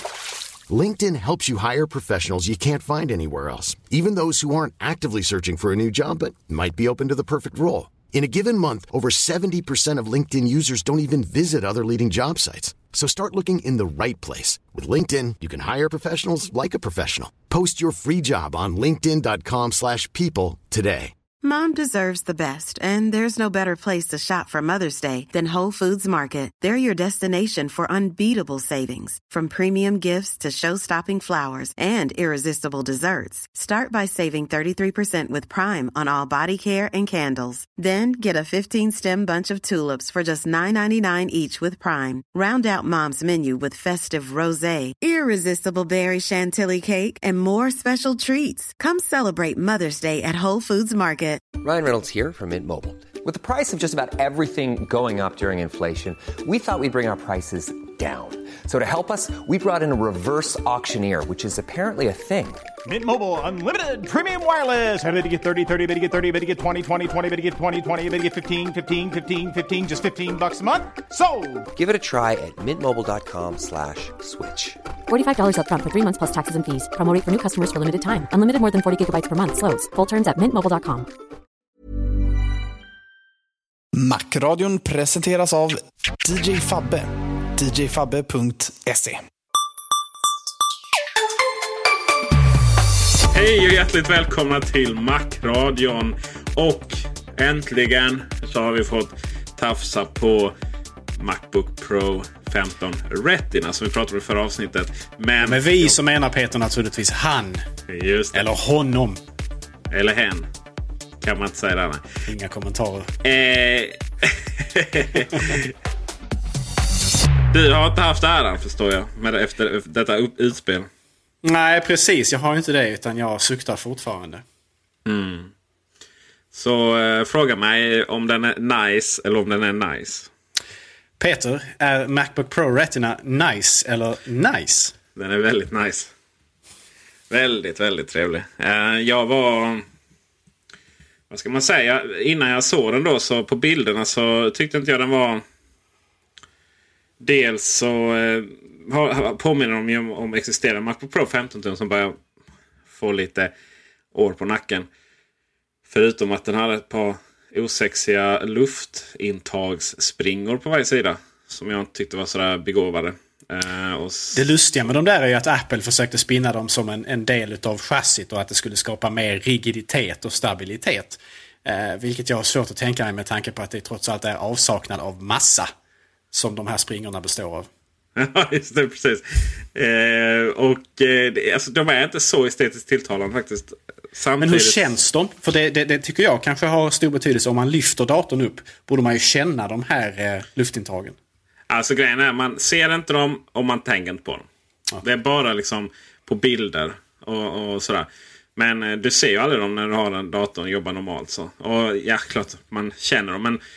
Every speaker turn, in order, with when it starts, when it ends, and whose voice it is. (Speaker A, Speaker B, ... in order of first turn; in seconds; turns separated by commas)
Speaker A: 0.7-21.1, Speaker B: 21.4-51.5, Speaker C: 51.6-62.7, Speaker D: 62.9-71.7, Speaker C: 71.8-74.8, Speaker E: 75.1-81.1, Speaker F: 84.0-89.2, Speaker G: 93.3-100.5, Speaker G: 101.2-106.0, Speaker H: 105.4-107.6, Speaker G: 107.9-108.5, Speaker H: 108.3-109.2, Speaker G: 109.9-110.5, Speaker G: 111.2-112.0, Speaker H: 112.3-113.1, Speaker G: 113.2-115.7, Speaker G: 117.5-120.9, Speaker H: 121.4-124.4, Speaker G: 125.1-125.5, Speaker G: 126.5-130.3, Speaker H: 131.2-134.9, Speaker G: 135.2-136.1, Speaker G: 137.3-139.8, Speaker G: 141.3-145.4, Speaker G: 147.2-152.2, Speaker G: 152.9-153.5, Speaker G: 154.1-154.9, Speaker G: 155.9-164.5, Speaker H: 164.3-175.7, Speaker H: 176.3-177.7, Speaker G: 178.2-184.9, Speaker H: 184.4-191.2, Speaker G: 191.7-194.5, Speaker G: 195.0-203.6